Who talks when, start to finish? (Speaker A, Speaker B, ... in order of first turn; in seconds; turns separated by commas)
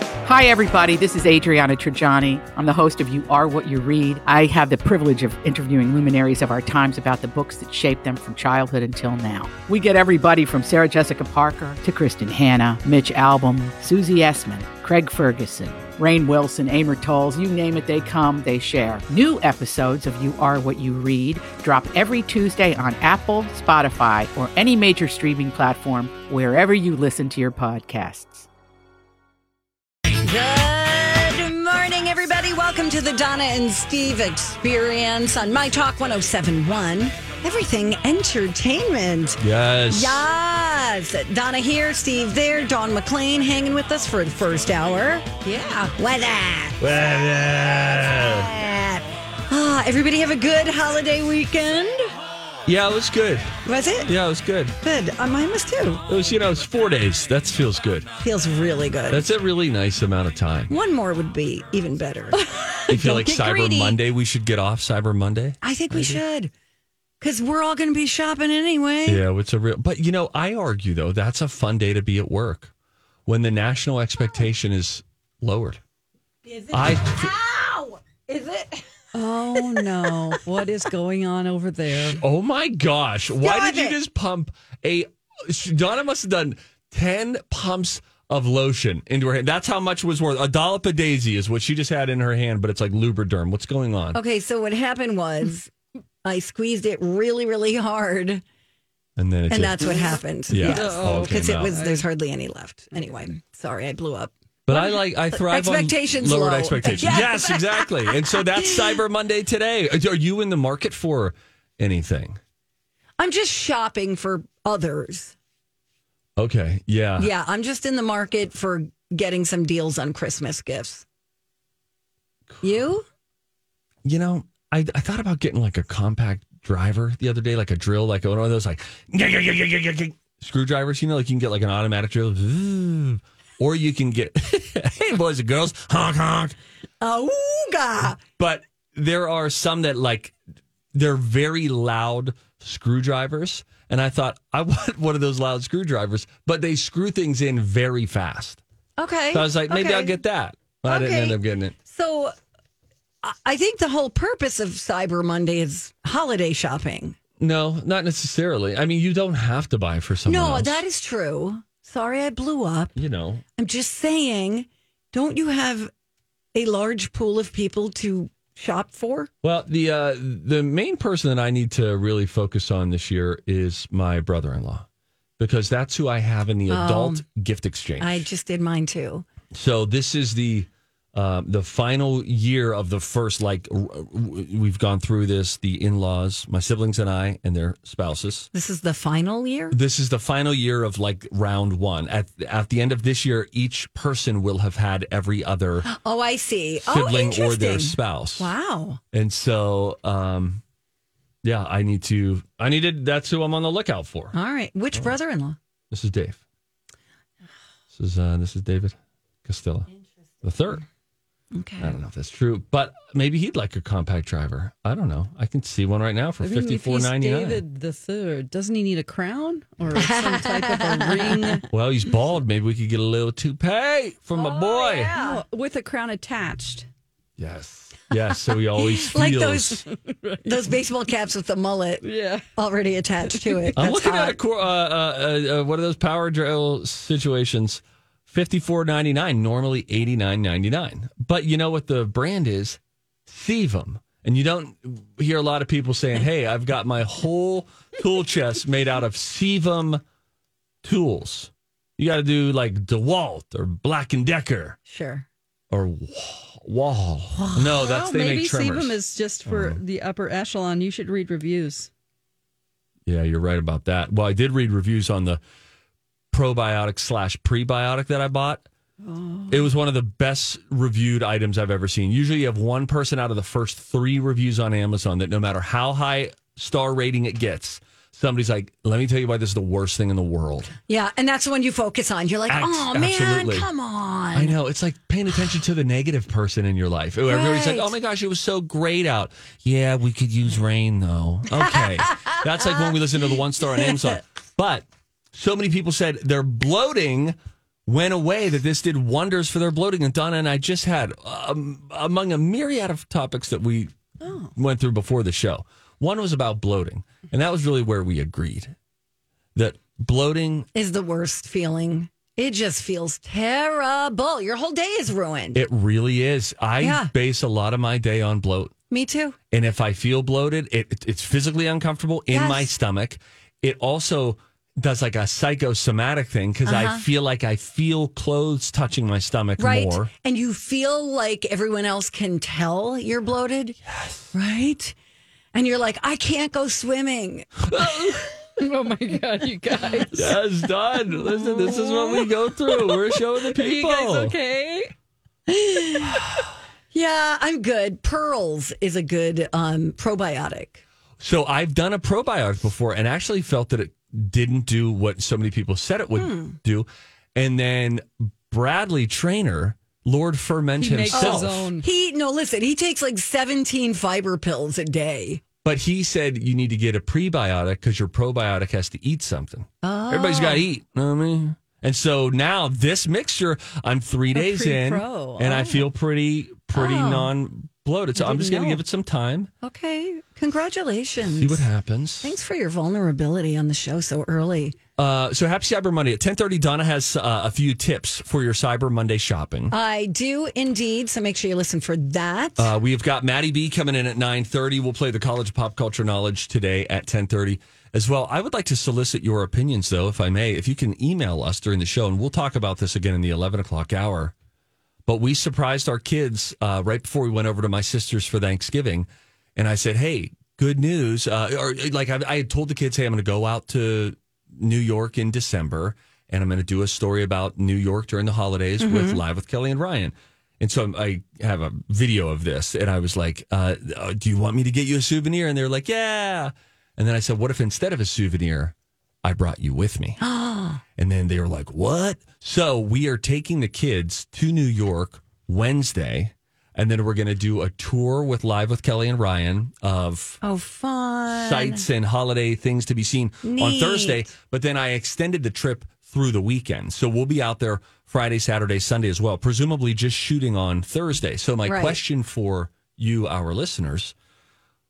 Speaker A: 0.2-28.5, Speaker B: 30.2-46.8, Speaker C: 39.4-40.2, Speaker C: 46.8-48.5, Speaker B: 48.2-52.0, Speaker C: 52.6-54.8, Speaker B: 53.6-54.1, Speaker B: 54.8-56.0, Speaker C: 56.1-58.1, Speaker B: 58.2-59.3, Speaker C: 59.1-60.7, Speaker B: 60.7-62.4, Speaker C: 62.9-66.2, Speaker B: 62.9-64.0, Speaker B: 65.6-66.5, Speaker B: 67.2-69.2, Speaker C: 69.1-72.7, Speaker C: 73.3-75.8, Speaker B: 76.5-78.8, Speaker C: 76.7-77.3, Speaker D: 79.1-82.2, Speaker B: 79.5-80.3, Speaker C: 81.9-94.2, Speaker B: 83.4-84.0, Speaker B: 94.1-95.7, Speaker B: 96.2-98.4, Speaker C: 99.2-100.0, Speaker B: 99.5-109.0, Speaker C: 100.5-101.8, Speaker D: 100.6-102.1, Speaker C: 104.7-112.4, Speaker B: 113.2-115.3, Speaker C: 116.4-117.3, Speaker B: 117.2-121.0, Speaker B: 122.6-123.0, Speaker C: 124.0-136.6, Speaker B: 137.0-138.2, Speaker C: 138.4-140.4, Speaker C: 140.9-148.6, Speaker B: 149.0-150.2, Speaker C: 149.3-151.8, Speaker B: 150.8-152.3, Speaker B: 153.2-157.2, Speaker C: 157.4-160.8, Speaker B: 160.2-162.9, Speaker C: 162.9-163.4, Speaker B: 163.6-165.9, Speaker B: 166.5-169.3, Speaker C: 169.4-174.9, Speaker C: 175.4-178.2, Speaker B: 176.7-177.2, Speaker B: 178.0-179.2, Speaker C: 179.5-188.5, Speaker B: 188.5-189.8, Speaker C: 189.7-195.9, Speaker B: 195.8-199.0, Speaker C: 196.8-198.5, Speaker C: 199.1-200.6, Speaker C: 201.4-204.3, Speaker B: 204.3-205.6, Speaker C: 205.9-206.4, Speaker C: 207.9-209.9, Speaker C: 210.4-210.8, Speaker B: 211.5-211.9, Speaker C: 211.8-217.6, Speaker D: 216.4-221.7, Speaker B: 219.9-221.6, Speaker C: 221.7-225.1, Speaker B: 224.4-225.4, Speaker D: 225.1-226.9, Speaker C: 227.4-229.8, Speaker B: 228.8-229.8, Speaker D: 230.0-230.7, Speaker B: 230.4-232.1, Speaker D: 232.0-232.4, Speaker B: 232.6-234.4, Speaker D: 233.3-233.8, Speaker C: 233.8-250.0, Speaker C: 250.8-254.8, Speaker B: 254.9-255.3, Speaker C: 255.7-259.8, Speaker D: 257.6-261.9, Speaker C: 263.1-265.4, Speaker C: 266.3-268.6, Speaker D: 269.0-269.6, Speaker C: 269.5-280.7, Speaker B: 280.9-284.6, Speaker C: 282.5-283.7, Speaker C: 284.3-304.0, Speaker B: 287.3-288.0, Speaker B: 291.6-292.4, Speaker D: 304.2-304.5, Speaker C: 304.6-308.7, Speaker C: 309.6-310.7, Speaker B: 310.7-315.6, Speaker C: 315.6-318.7, Speaker B: 316.8-317.1, Speaker B: 318.9-319.4, Speaker C: 319.5-330.1, Speaker B: 322.3-322.7, Speaker B: 326.6-327.1, Speaker B: 329.6-333.8, Speaker C: 333.9-334.3, Speaker B: 334.3-334.9, Speaker B: 335.5-337.6, Speaker C: 337.7-338.3, Speaker D: 338.6-340.4, Speaker C: 340.1-344.4, Speaker D: 341.1-344.9, Speaker B: 345.5-346.2, Speaker B: 346.9-350.8, Speaker C: 351.2-361.7, Speaker B: 356.2-356.6, Speaker D: 360.8-361.9, Speaker B: 361.1-365.4, Speaker C: 365.6-379.5, Speaker B: 369.8-370.6, Speaker D: 374.3-375.8, Speaker B: 376.7-377.3, Speaker D: 378.3-378.8, Speaker B: 378.4-378.7, Speaker B: 379.6-381.7, Speaker C: 381.2-382.4, Speaker B: 382.2-384.8, Speaker C: 385.0-389.8, Speaker B: 389.7-392.7, Speaker C: 392.6-404.3, Speaker C: 405.1-430.2, Speaker B: 418.8-419.2, Speaker B: 430.2-430.8, Speaker C: 431.0-440.4, Speaker B: 440.4-441.9, Speaker C: 441.3-454.1, Speaker B: 443.4-444.3, Speaker B: 451.6-452.0